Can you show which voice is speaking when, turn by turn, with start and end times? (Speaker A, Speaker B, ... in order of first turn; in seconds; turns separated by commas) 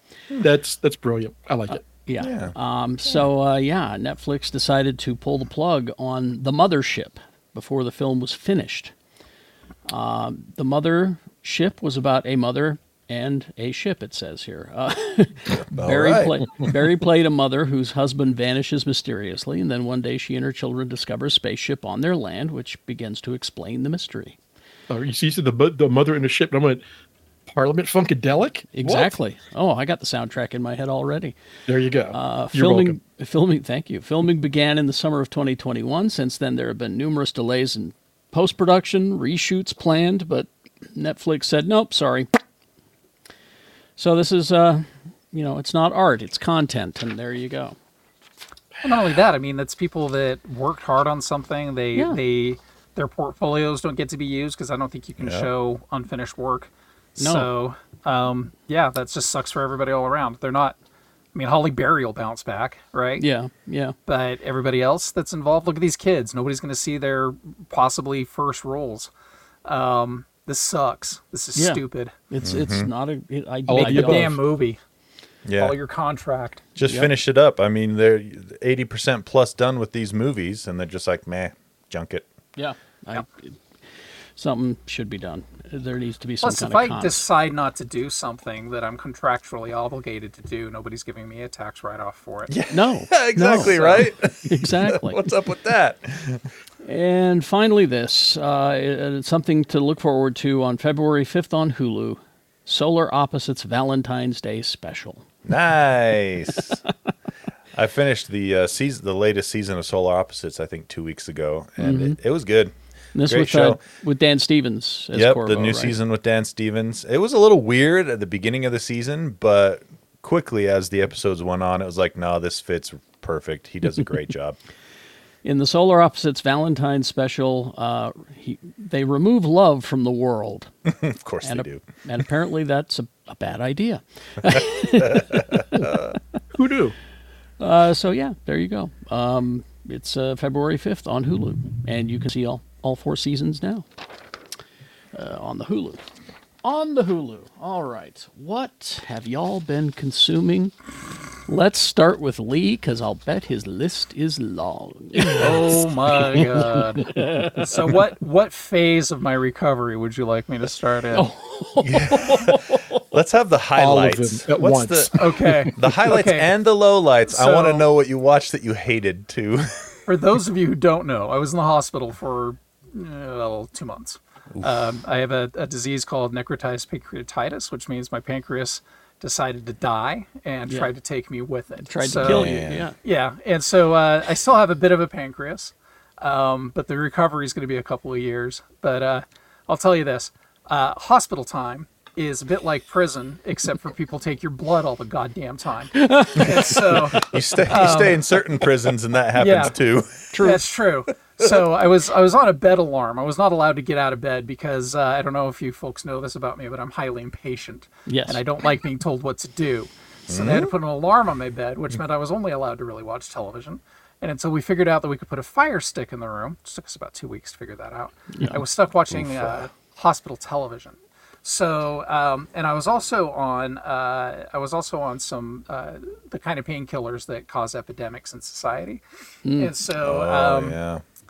Speaker A: 0.3-1.9, Speaker B: 1.7-8.9, Speaker C: 2.2-2.5, Speaker B: 9.9-24.4, Speaker C: 15.5-16.5, Speaker A: 24.9-26.8, Speaker A: 27.5-29.2, Speaker B: 28.7-31.4, Speaker A: 31.7-33.0, Speaker B: 32.1-42.3, Speaker B: 44.0-47.8, Speaker D: 48.8-60.8, Speaker B: 51.9-52.2, Speaker C: 55.2-55.5, Speaker B: 57.2-57.5, Speaker D: 61.3-63.2, Speaker B: 63.2-63.9, Speaker D: 64.1-69.1, Speaker D: 69.6-72.1, Speaker B: 71.5-74.3, Speaker C: 72.4-72.9, Speaker A: 73.7-74.4, Speaker D: 73.7-74.8, Speaker C: 75.5-75.8, Speaker D: 75.6-76.6, Speaker C: 76.8-82.2, Speaker B: 76.8-77.1, Speaker B: 82.5-83.6, Speaker B: 84.3-87.2, Speaker D: 86.4-92.5, Speaker C: 92.5-96.4, Speaker B: 92.7-95.2, Speaker B: 96.8-105.2, Speaker C: 105.5-106.8, Speaker C: 107.7-113.8, Speaker B: 111.8-112.2, Speaker B: 113.1-116.0, Speaker C: 115.1-124.6, Speaker B: 125.4-130.7, Speaker C: 130.8-131.8, Speaker B: 131.4-135.9, Speaker C: 135.1-136.0, Speaker A: 136.5-136.9, Speaker B: 137.6-143.8, Speaker B: 145.1-146.0, Speaker B: 146.6-150.7, Speaker B: 151.4-155.8, Speaker D: 155.3-161.3, Speaker B: 156.3-157.8, Speaker B: 161.1-163.0, Speaker C: 161.8-165.1, Speaker A: 163.8-165.7, Speaker D: 165.1-166.5, Speaker C: 165.7-169.9, Speaker D: 167.3-167.8, Speaker D: 170.1-198.2, Speaker B: 181.9-182.9, Speaker C: 182.2-182.9, Speaker B: 195.9-197.0, Speaker C: 196.4-200.3, Speaker D: 199.3-199.8, Speaker B: 200.3-200.6, Speaker D: 200.4-229.0, Speaker B: 208.1-208.4, Speaker C: 210.3-210.7, Speaker B: 218.3-218.6, Speaker B: 229.4-229.7, Speaker D: 229.6-230.8, Speaker C: 230.0-231.0